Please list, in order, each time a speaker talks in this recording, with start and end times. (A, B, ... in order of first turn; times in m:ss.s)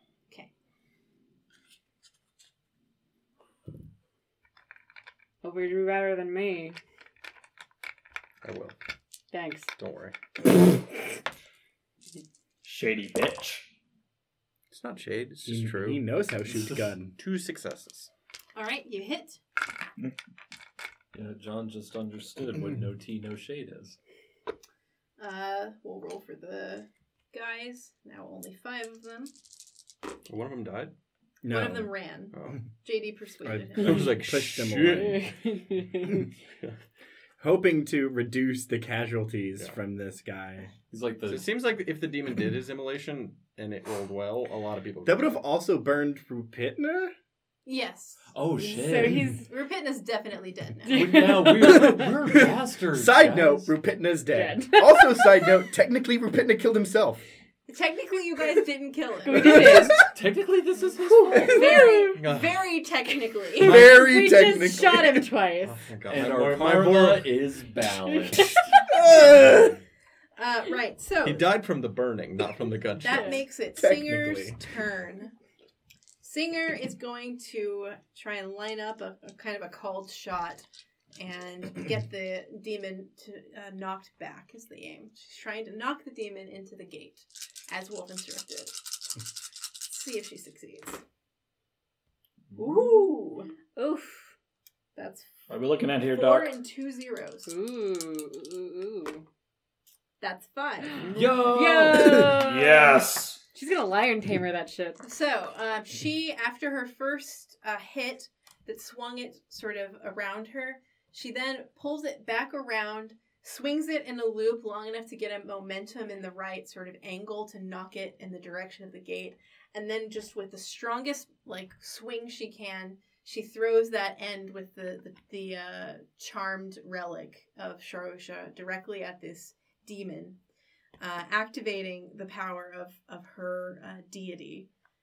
0:05.4-0:06.8 A
0:08.4-0:08.8 B
0:09.3-0:09.7 A
0:09.8-0:10.2 B
0:12.6-0:13.7 C
0:14.7-0:16.0 B
0:15.4-0:17.2 D
0:17.2-0:18.1 B
0:18.6-0:19.4 E
0:21.1-0:24.0 F
0:25.2-0:29.3 E
0:30.3-0:30.9 B
0:31.4-0:31.9 D
0:31.5-0:34.1 E
0:32.3-0:32.7 B
0:33.4-0:35.2 D
0:33.8-0:35.3 B
0:34.9-0:36.2 A
0:36.1-0:36.8 B
0:37.4-0:40.7 D
0:40.9-0:41.5 F
0:41.3-0:45.4 B
0:45.0-0:47.1 D
0:47.7-0:48.4 E
0:48.3-0:49.4 F
0:48.6-0:49.5 A
0:49.5-0:51.4 E
0:50.9-0:51.9 A
0:50.9-0:53.7 F
0:51.7-0:57.2 D
0:54.3-0:55.5 A
0:57.7-0:59.8 E
0:59.2-1:00.0 A
0:59.4-0:59.8 D
0:59.6-1:01.6 F
1:01.3-1:01.6 D
1:01.4-1:03.9 E
1:01.5-1:02.2 A
1:02.1-1:02.6 B
1:03.6-1:05.3 D
1:03.6-1:05.8 A
1:05.6-1:07.4 B
1:06.1-1:09.8 F
1:08.1-1:08.6 A
1:08.9-1:09.8 D
1:10.4-1:11.5 E
1:11.2-1:13.4 B
1:13.0-1:15.3 E
1:13.8-1:14.7 D
1:16.2-1:20.6 E
1:21.2-1:28.8 E
1:29.9-1:31.0 E
1:32.6-1:33.5 E
1:32.8-1:33.1 A
1:33.7-1:34.3 A
1:35.0-1:35.5 E
1:35.5-1:36.6 C
1:36.0-1:37.5 E
1:37.5-1:39.2 A
1:40.2-1:41.1 E
1:41.0-1:43.0 A
1:41.1-1:42.4 F
1:42.3-1:43.4 C
1:43.5-1:45.0 A
1:45.0-2:10.4 E
2:11.0-2:14.7 E